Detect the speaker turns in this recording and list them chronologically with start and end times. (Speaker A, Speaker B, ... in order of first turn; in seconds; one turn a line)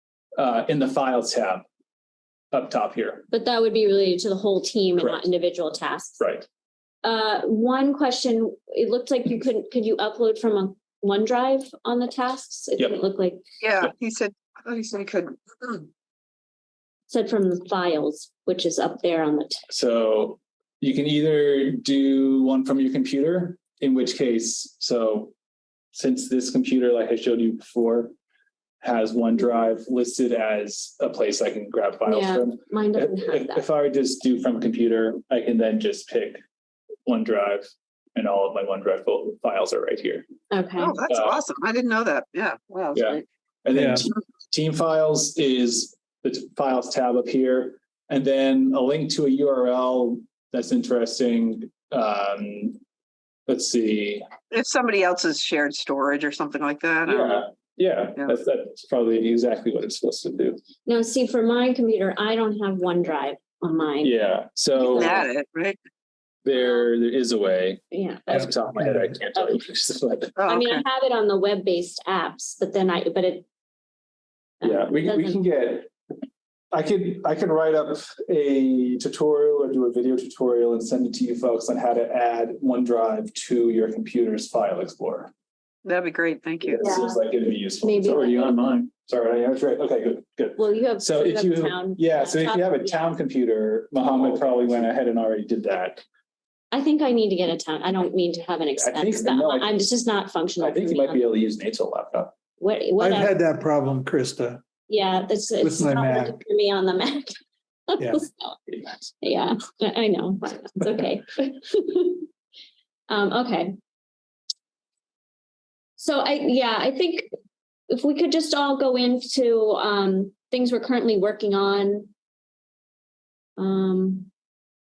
Speaker A: 0.4-1.6
Speaker A: 2.5-3.3
Speaker B: 3.3-6.2
Speaker A: 5.0-5.2
Speaker A: 6.2-6.5
Speaker B: 7.0-13.4
Speaker C: 13.6-15.8
Speaker B: 17.1-19.6
Speaker A: 19.7-25.3
Speaker A: 25.9-28.1
Speaker A: 28.8-36.4
Speaker B: 32.1-33.7
Speaker A: 37.1-40.3
Speaker B: 40.5-41.0
Speaker C: 40.8-43.2
Speaker A: 41.1-41.4
Speaker A: 42.9-52.8
Speaker D: 43.7-44.0
Speaker A: 53.5-54.3
Speaker C: 54.5-57.5
Speaker A: 57.1-60.6
Speaker B: 60.9-64.1
Speaker A: 64.0-65.3
Speaker C: 64.8-65.8
Speaker A: 66.5-70.3
Speaker B: 67.9-68.7
Speaker D: 68.3-69.1
Speaker C: 70.4-70.8
Speaker B: 70.5-73.5
Speaker B: 74.6-75.4
Speaker A: 74.6-75.9
Speaker A: 76.7-85.3
Speaker C: 85.8-86.8
Speaker A: 86.7-96.0
Speaker B: 86.8-87.2
Speaker B: 87.8-88.8
Speaker B: 90.6-93.2
Speaker B: 96.7-101.3
Speaker A: 98.8-99.7
Speaker A: 100.6-102.3
Speaker B: 102.6-103.3
Speaker D: 103.0-104.6
Speaker B: 104.9-107.4
Speaker D: 105.6-106.4
Speaker B: 107.9-108.6
Speaker D: 108.0-108.2
Speaker B: 109.2-112.3
Speaker B: 113.1-113.8
Speaker B: 116.0-117.3
Speaker B: 117.9-122.1
Speaker B: 123.6-124.3